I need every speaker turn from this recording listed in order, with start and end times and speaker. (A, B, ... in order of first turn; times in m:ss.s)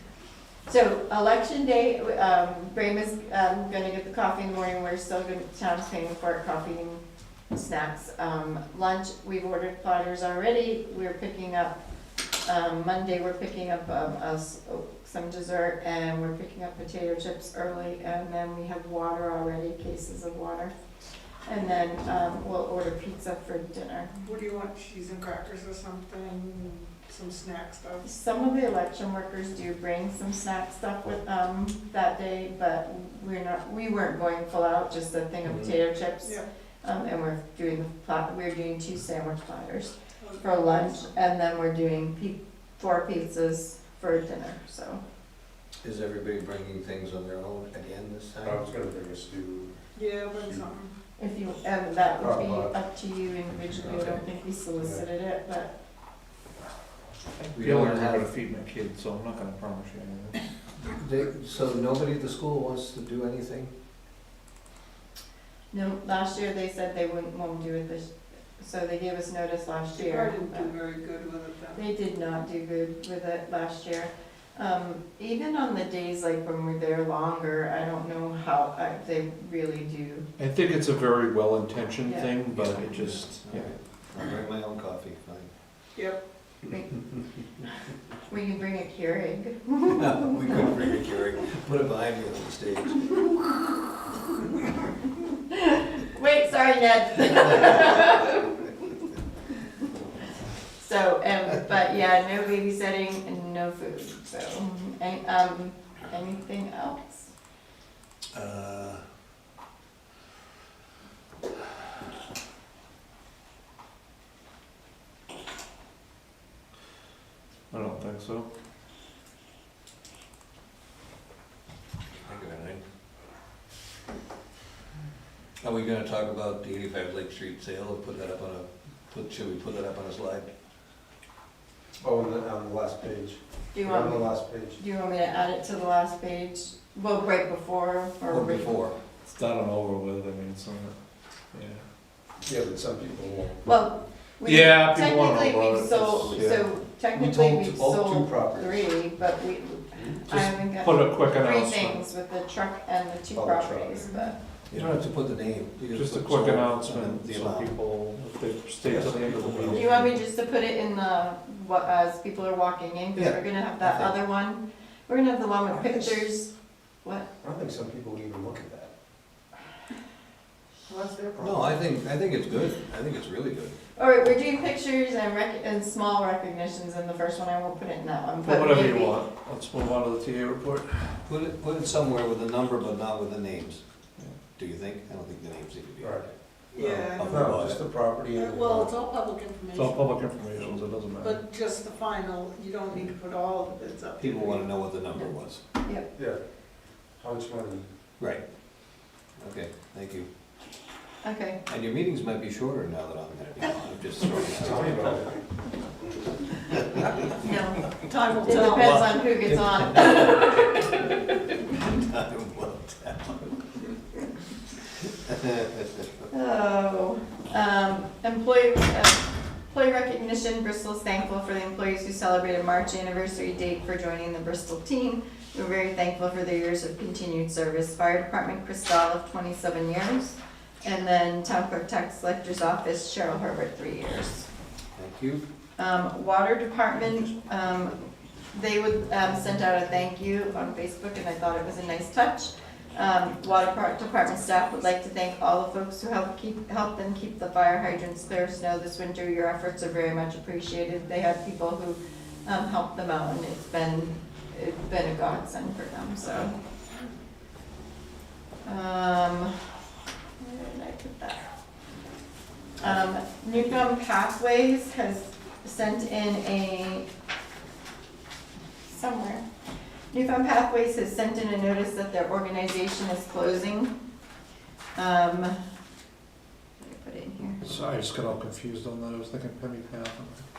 0:00.7-0:11.8 A
0:12.4-0:20.7 A
0:21.4-0:24.1 A
0:24.2-0:28.1 B
0:28.0-0:45.0 A
0:35.4-0:35.8 C
0:40.2-0:41.0 B
0:45.8-0:48.6 C
0:48.4-0:49.8 D
0:50.0-0:50.9 B
0:50.4-0:50.7 D
0:51.2-0:55.7 A
0:52.2-0:52.8 D
0:53.5-0:54.2 D
0:54.8-0:55.0 D
0:57.4-1:00.4 E
0:57.5-0:58.2 C
1:00.8-1:03.7 C
1:05.7-1:10.7 A
1:09.9-1:11.8 B
1:11.8-1:20.2 A
1:20.4-1:23.7 E
1:22.0-1:22.3 A
1:22.5-1:25.5 C
1:26.0-1:26.2 B
1:26.7-1:27.0 A
1:28.3-1:30.3 A
1:29.9-1:33.2 C
1:35.5-1:38.7 A
1:40.8-1:47.3 A
1:48.3-1:49.0 C
1:57.7-1:58.5 E
2:02.2-2:02.8 C
2:05.6-2:10.5 C
2:12.0-2:14.8 D
2:13.7-2:18.8 A
2:18.3-2:19.0 C
2:19.2-2:21.0 E
2:21.5-2:21.8 E
2:22.4-2:23.7 D
2:23.6-2:34.4 A
2:24.4-2:26.7 E
2:27.1-2:28.0 C
2:27.6-2:29.1 D
2:30.0-2:30.2 D
2:30.3-2:32.0 E
2:33.3-2:34.1 D
2:34.0-2:34.3 B
2:34.7-2:37.8 C
2:34.7-2:35.1 E
2:35.9-2:39.8 E
2:38.8-2:39.9 D
2:39.3-2:39.7 C
2:39.7-2:46.5 A
2:43.2-2:44.2 C
2:47.4-2:48.9 D
2:50.9-2:51.8 B
2:51.4-2:53.8 C
2:54.0-2:59.2 A
2:58.4-3:01.2 E
3:01.3-3:03.8 C
3:04.5-3:07.8 C
3:06.0-3:08.9 D
3:06.7-3:07.5 B
3:08.3-3:14.7 B
3:09.7-3:11.4 E
3:14.2-3:15.6 C
3:16.2-3:16.4 D
3:17.2-3:17.9 D
3:19.4-3:20.3 C
3:21.2-3:21.6 A
3:21.7-3:25.1 C
3:24.6-3:25.4 D
3:27.4-3:27.9 A
3:28.1-3:29.0 B
3:28.3-3:30.6 C
3:28.4-3:31.0 A
3:31.7-3:33.6 C
3:35.3-3:36.0 C
3:36.3-3:54.5 A
3:55.0-3:55.4 C
3:55.8-3:58.0 A
3:58.5-4:16.6 A
4:18.6-4:19.6 A
4:20.4-4:21.5 A
4:22.8-4:27.1 A
4:28.9-4:29.4 A
4:30.1-4:33.9 A
4:35.0-4:35.6 A
4:36.8-4:37.6 A
4:37.6-4:40.5 E